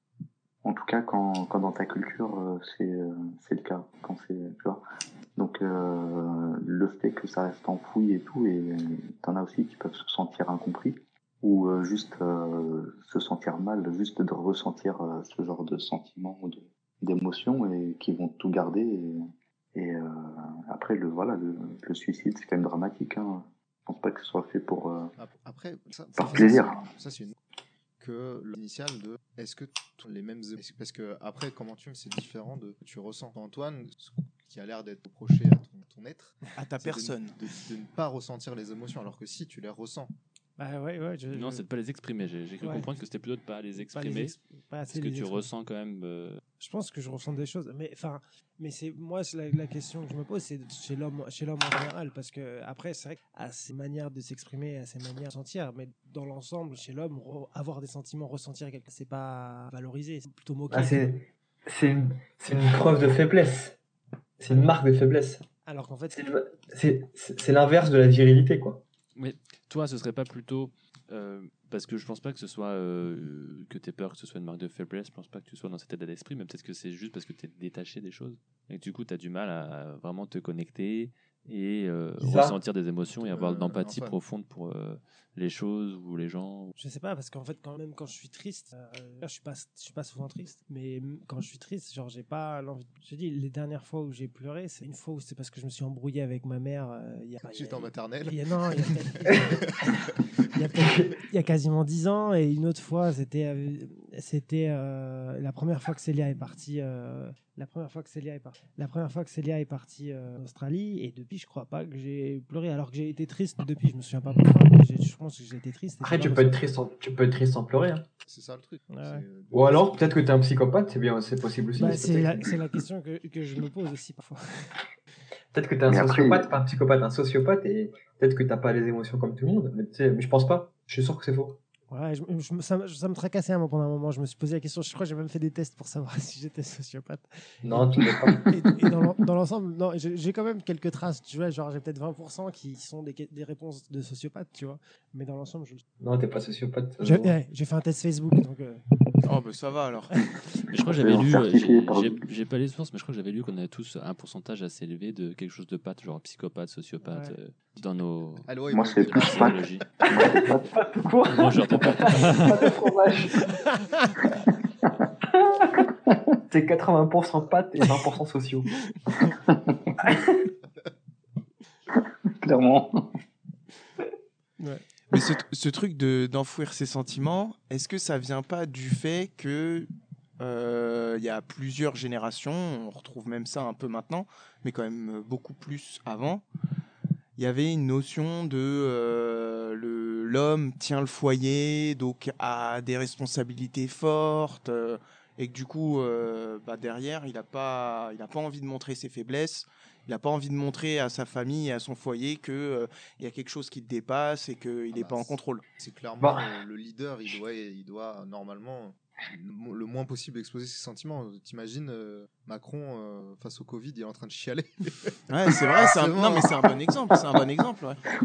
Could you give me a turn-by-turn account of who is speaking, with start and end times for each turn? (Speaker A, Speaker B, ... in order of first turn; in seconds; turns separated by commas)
Speaker A: 0.6-4.8, Speaker A: 5.3-19.2, Speaker A: 19.7-25.1, Speaker B: 25.2-27.4, Speaker A: 26.1-26.8, Speaker B: 28.0-40.1, Speaker C: 36.5-37.4, Speaker D: 40.6-41.6, Speaker E: 41.3-44.3, Speaker D: 42.6-42.9, Speaker D: 43.8-45.5, Speaker E: 44.9-46.4, Speaker D: 46.6-61.1, Speaker F: 60.7-63.8, Speaker F: 64.4-65.4, Speaker D: 65.7-66.3, Speaker F: 66.1-68.8, Speaker E: 69.2-86.7, Speaker F: 82.2-82.5, Speaker B: 83.2-84.2, Speaker D: 86.8-116.6, Speaker B: 97.5-98.4, Speaker F: 100.8-101.1, Speaker F: 116.0-118.0, Speaker B: 118.2-120.3, Speaker D: 118.9-119.2, Speaker F: 119.5-122.5, Speaker D: 121.8-124.7, Speaker F: 125.5-131.6, Speaker A: 125.9-126.5, Speaker D: 131.9-145.8, Speaker F: 137.6-138.5, Speaker F: 146.0-147.3, Speaker D: 147.0-148.8, Speaker C: 149.2-150.1, Speaker E: 150.7-159.9, Speaker A: 150.8-152.2, Speaker D: 157.0-157.3, Speaker B: 158.4-159.7, Speaker A: 158.7-160.7, Speaker F: 160.1-163.6, Speaker E: 161.3-162.8, Speaker D: 163.4-164.3, Speaker F: 165.3-165.9, Speaker F: 166.5-168.7, Speaker D: 169.1-169.4, Speaker A: 169.5-169.8, Speaker F: 170.0-170.5, Speaker A: 171.9-173.2, Speaker C: 175.1-186.4, Speaker C: 187.3-205.6, Speaker B: 204.9-216.7, Speaker F: 206.2-206.5, Speaker C: 215.3-218.0